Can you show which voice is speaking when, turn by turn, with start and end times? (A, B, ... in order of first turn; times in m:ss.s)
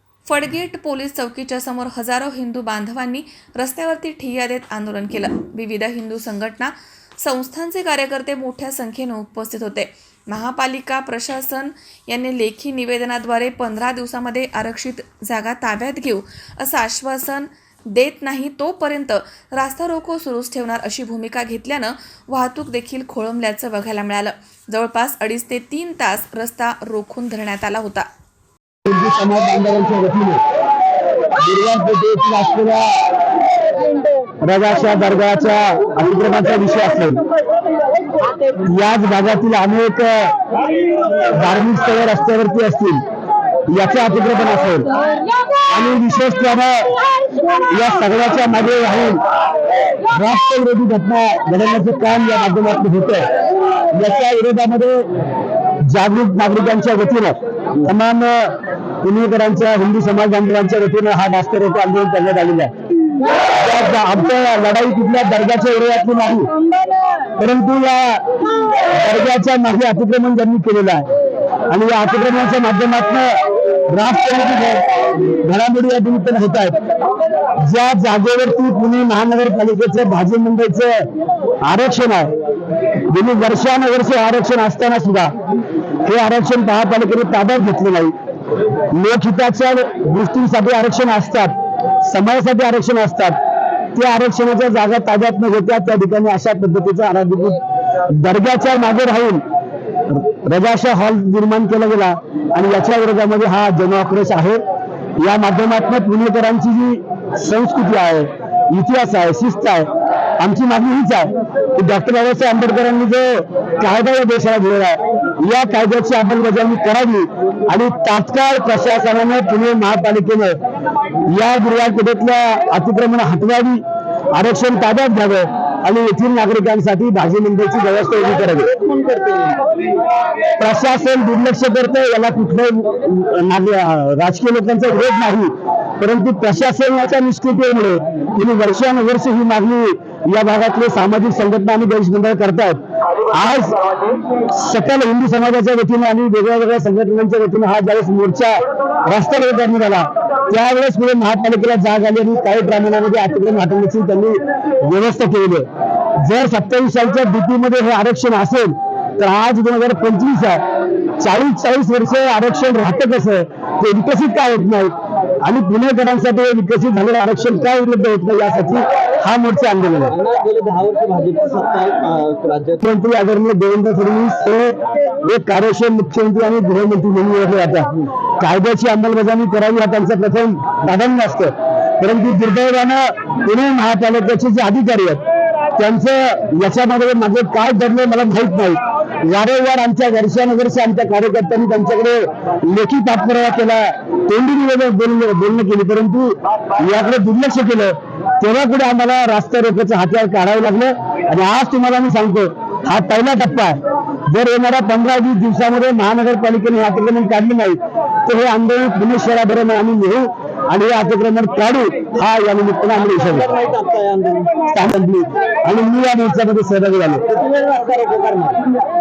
0:00.3-0:28.1 A
0:28.9-0:30.4 B
0:31.4-0:33.0 B
0:34.4-0:37.2 B
0:38.6-0:40.3 B
0:41.3-0:43.0 B
0:43.7-0:44.9 B
0:45.7-0:46.9 B
0:47.7-0:49.2 B
0:50.1-0:53.3 B
0:53.9-0:55.1 B
0:55.9-1:02.7 B
1:03.5-1:06.5 B
1:07.4-1:08.2 B
1:08.8-1:11.1 B
1:11.7-1:16.8 B
1:17.6-1:21.1 B
1:21.6-1:22.3 B
1:23.1-1:25.3 B
1:26.0-1:28.1 B
1:28.9-1:33.4 B
1:34.0-1:39.4 B
1:40.1-1:44.6 B
1:45.2-1:49.9 B
1:50.4-2:00.6 B
2:01.3-2:03.8 B
2:04.3-2:08.7 B
2:08.4-2:09.6 C
2:10.6-2:23.8 B
2:24.5-2:35.7 B
2:36.2-2:40.6 B
2:41.2-2:50.1 B
2:50.1-2:52.8 C
2:52.8-3:05.2 B
3:05.8-3:23.8 B
3:24.3-3:33.5 B
3:33.1-3:34.6 C
3:34.7-3:37.2 B
3:37.3-3:38.6 C